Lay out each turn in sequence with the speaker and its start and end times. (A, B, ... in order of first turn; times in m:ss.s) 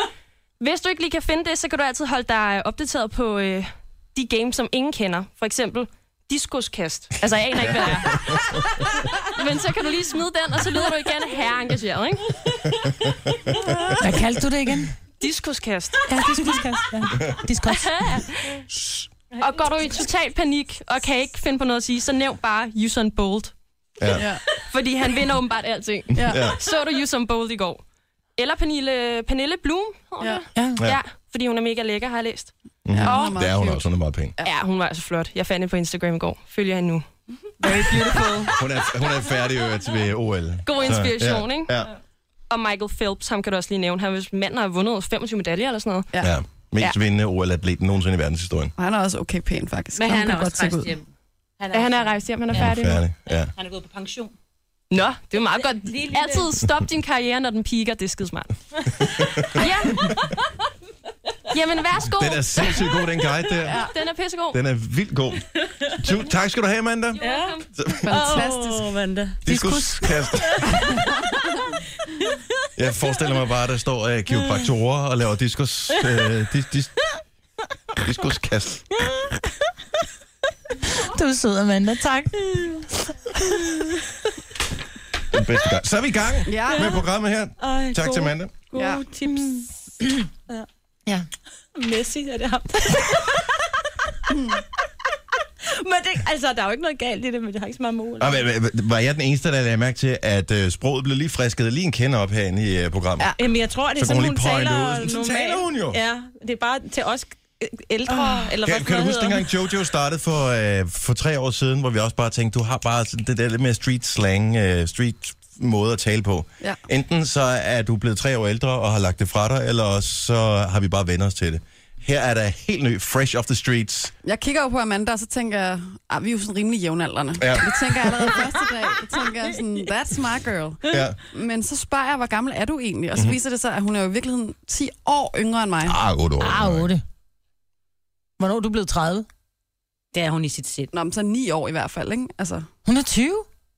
0:00.6-0:12.4 A
0:07.6-0:08.6 B
0:12.8-0:13.7 B
0:14.0-0:14.9 C
0:15.2-0:16.1 A
0:16.1-0:18.2 C
0:17.7-0:18.6 A
0:19.4-0:23.5 A
0:24.0-0:24.2 B
0:24.1-0:24.4 D
0:24.5-0:27.8 A
0:26.1-0:26.6 B
0:26.1-0:26.4 D
0:28.4-0:33.4 A
0:30.5-0:30.8 C
0:32.8-0:34.3 B
0:32.9-0:33.8 D
0:34.4-0:37.0 A
0:37.6-0:38.6 A
0:37.6-0:38.3 D
0:38.5-0:41.9 B
0:40.6-0:41.8 A
0:42.5-0:46.1 A
0:46.2-0:48.7 B
0:48.8-0:50.8 D
0:50.0-0:51.0 E
0:51.6-0:52.7 E
0:51.7-0:53.0 A
0:52.5-0:53.5 B
0:53.5-0:54.3 E
0:54.9-1:00.2 A
0:55.6-0:56.5 E
0:59.2-1:00.3 B
1:01.5-1:02.9 A
1:02.1-1:03.9 B
1:03.6-1:04.6 A
1:04.5-1:07.2 B
1:07.1-1:07.8 A
1:07.2-1:09.4 E
1:07.8-1:08.2 B
1:08.0-1:08.9 D
1:09.4-1:11.0 B
1:09.4-1:10.1 C
1:10.3-1:10.7 E
1:10.8-1:11.4 D
1:12.8-1:16.9 B
1:18.0-1:19.0 B
1:20.8-1:22.4 C
1:22.4-1:22.8 E
1:23.5-1:24.0 E
1:25.3-1:28.5 B
1:26.4-1:27.0 D
1:26.7-1:27.0 E
1:27.6-1:30.6 E
1:28.7-1:29.0 D
1:31.7-1:33.6 E
1:35.6-1:38.4 E
1:38.2-1:43.4 B
1:43.3-1:49.5 E
1:44.0-1:46.0 B
1:48.6-2:04.1 B
2:04.2-2:16.0 D
2:07.4-2:07.8 B
2:10.9-2:11.2 B
2:15.8-2:16.9 B
2:16.4-2:17.0 C
2:18.4-2:19.2 C
2:20.1-2:20.9 E
2:20.9-2:22.6 D
2:22.8-2:23.4 C